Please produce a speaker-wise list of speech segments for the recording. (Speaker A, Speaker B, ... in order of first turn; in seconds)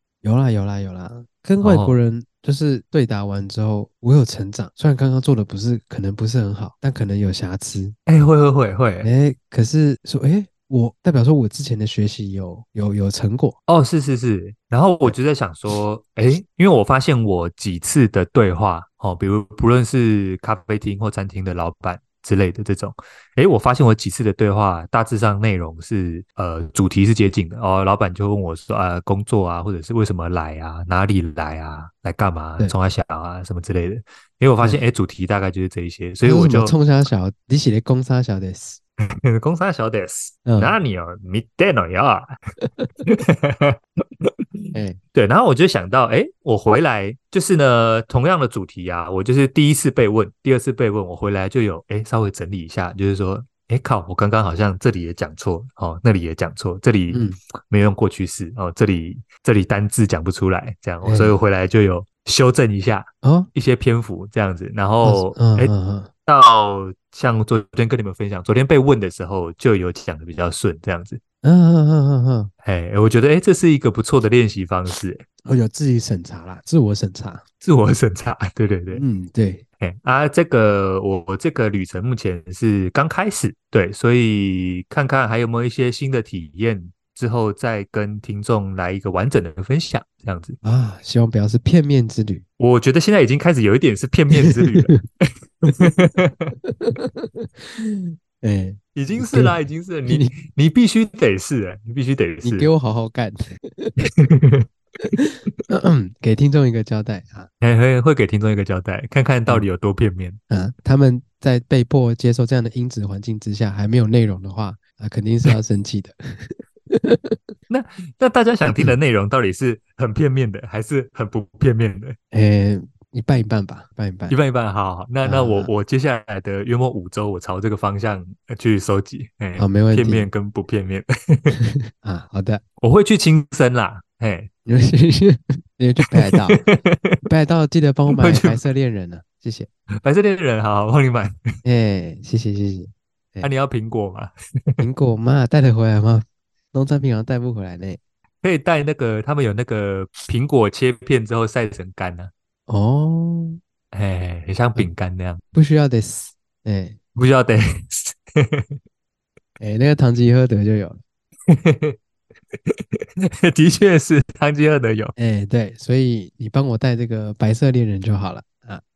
Speaker A: 0.2-8.0, 9.0-13.6, 36.2-38.8, 40.5-40.8, 44.7-45.0, 57.1-57.4, 61.0-61.4, 63.2-63.5, 65.0-66.1, 71.4-72.5, 75.4-77.4, 78.9-79.6, 90.6-92.4, 95.7-95.9, 96.7-99.5, 100.1-100.3, 102.4-103.9, 105.1-107.5, 110.5-117.4, 118.7-118.9, 122.3-124.4, 125.2-125.7, 129.6-130.3, 131.6-132.6, 134.7-136.7, 137.2-139.7, 141.6-143.5, 144.8-148.0, 152.7-153.6, 155.5-157.0, 159.6-161.0, 165.2-168.8
Speaker B: 1.6-2.0, 8.1-9.1, 13.7-36.8, 39.0-42.4, 43.1-65.7, 66.3-71.2, 72.6-75.2, 77.6-79.0, 79.8-90.6, 92.6-96.5, 99.0-102.7, 104.0-104.7, 107.6-110.4, 117.7-122.2, 124.3-131.6, 132.8-134.5, 136.1-137.2, 138.1-138.6, 140.0-141.4, 143.4-144.8, 148.4-152.3, 153.9-155.4, 157.2-158.8, 161.5-162.0, 162.7-165.1